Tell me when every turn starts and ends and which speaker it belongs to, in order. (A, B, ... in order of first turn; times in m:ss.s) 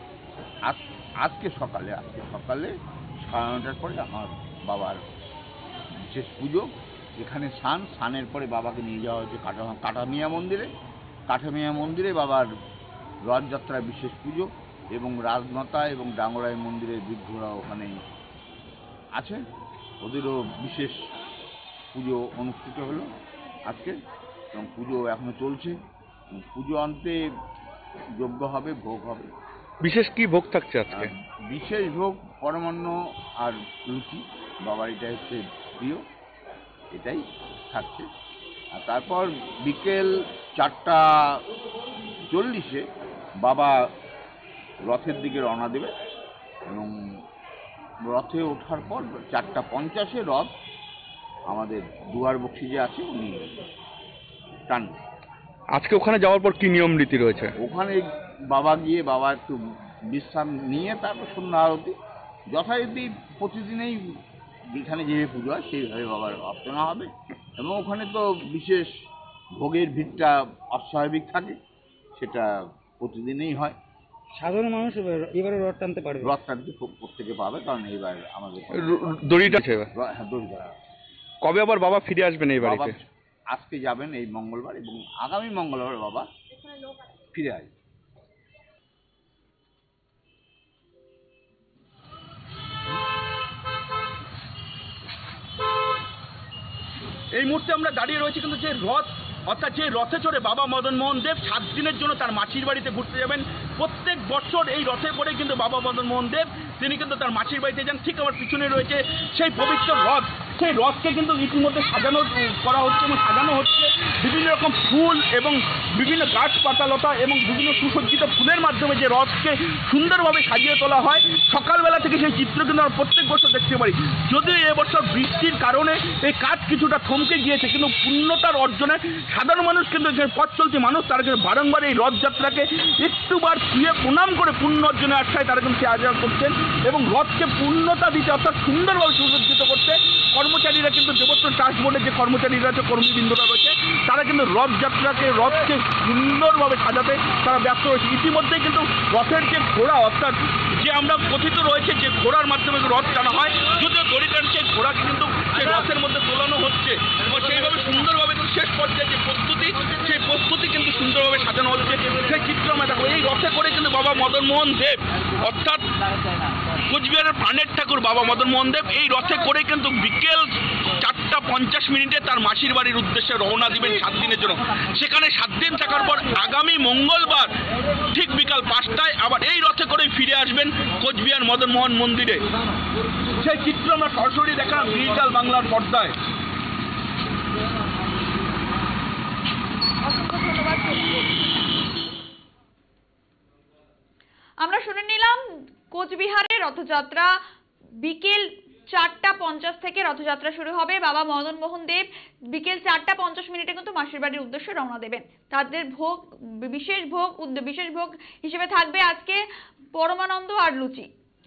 0:00.6-0:05.0 A
0:06.0-0:10.7 A
0:11.3-0:12.5 A
0:13.2-0:17.9 A
0:19.1-0:19.4 A
0:20.0-0:21.0 A
0:21.9-0:23.1 A
0:23.6-0:24.0 A
0:24.5-0:25.8 A
0:26.3-0:27.2 A
0:28.2-0:29.3 A
0:29.8-0:31.1 B
0:30.9-0:36.0 A
0:36.9-0:38.1 A
0:38.8-0:41.4 A
0:42.3-0:42.8 A
0:43.4-0:43.8 A
0:44.8-0:45.9 A
0:46.6-0:47.2 A
0:48.1-0:50.5 A
0:51.5-0:53.6 A
0:54.7-0:55.0 A
0:55.7-0:57.5 B
0:57.6-0:59.6 A
1:00.1-1:01.9 A
1:02.5-1:04.2 A
1:04.7-1:11.6 A
1:12.2-1:13.8 A
1:14.4-1:16.3 C
1:16.2-1:20.7 A
1:18.7-1:19.9 B
1:21.4-1:23.0 B
1:22.6-1:26.3 A
1:27.1-1:27.7 A
1:37.3-2:45.9 B
2:46.8-2:57.5 B
2:58.0-3:02.4 B
3:03.4-3:06.2 B
3:10.0-3:11.2 D
3:14.6-3:17.4 D
3:18.0-3:29.4 D
3:29.9-3:31.1 D